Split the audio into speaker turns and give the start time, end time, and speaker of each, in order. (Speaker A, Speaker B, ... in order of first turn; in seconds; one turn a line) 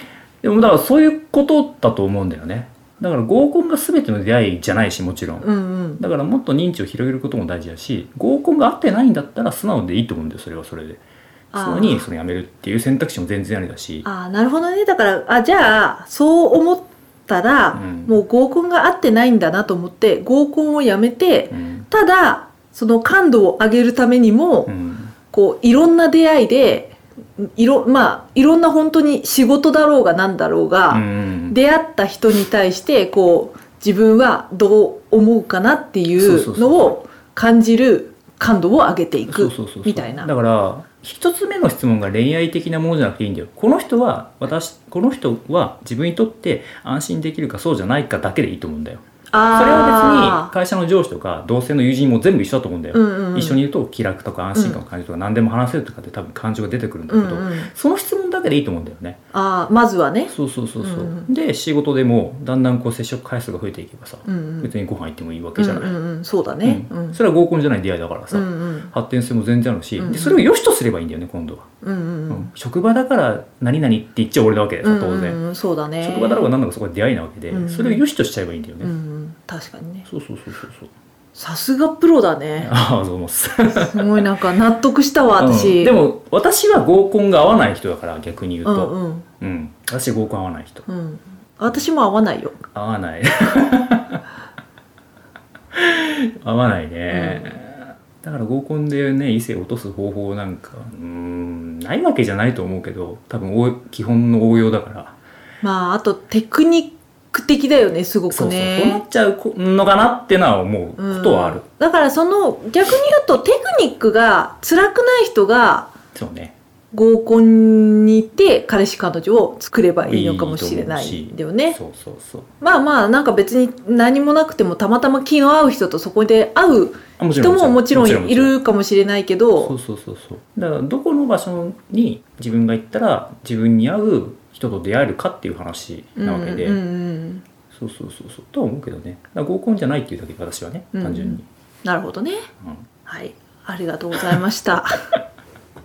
Speaker A: 0.4-11.0
Speaker B: 5.4-6.0
Speaker B: 11.5-12.1
Speaker A: 11.5-14.1
Speaker B: 14.0-24.7
Speaker A: 17.8-18.2
Speaker A: 21.5-21.9
Speaker A: 24.7-25.1
Speaker B: 25.3-40.3
Speaker A: 30.9-31.6
Speaker A: 36.2-36.9
Speaker A: 39.3-49.0
Speaker B: 49.3-50.5
Speaker A: 49.5-59.2
Speaker B: 52.9-53.6
Speaker B: 54.5-54.8
Speaker B: 57.1-57.7
Speaker B: 59.3-61.3
Speaker A: 60.3-66.0
Speaker B: 64.3-64.7
Speaker B: 65.6-67.2
Speaker A: 66.6-71.7
Speaker B: 68.3-68.9
Speaker B: 70.0-70.5
Speaker B: 71.8-72.5
Speaker A: 72.3-75.4
Speaker B: 74.8-76.5
Speaker A: 76.0-78.9
Speaker B: 77.5-78.0
Speaker B: 78.8-80.1
Speaker A: 80.1-80.9
Speaker B: 81.3-82.7
Speaker A: 82.6-84.3
Speaker B: 83.7-86.0
Speaker A: 85.4-90.8
Speaker B: 88.7-89.3
Speaker B: 90.9-92.6
Speaker A: 92.7-94.2
Speaker A: 95.7-105.2
Speaker B: 97.1-97.6
Speaker B: 105.6-109.0
Speaker A: 108.3-111.6
Speaker B: 111.0-115.9
Speaker A: 116.1-116.5
Speaker B: 116.9-121.8
Speaker A: 120.0-122.5
Speaker B: 122.6-129.8
Speaker A: 127.2-128.5
Speaker A: 129.6-136.8
Speaker B: 136.2-137.4
Speaker A: 137.7-141.4
Speaker B: 140.9-142.4
Speaker B: 143.1-145.0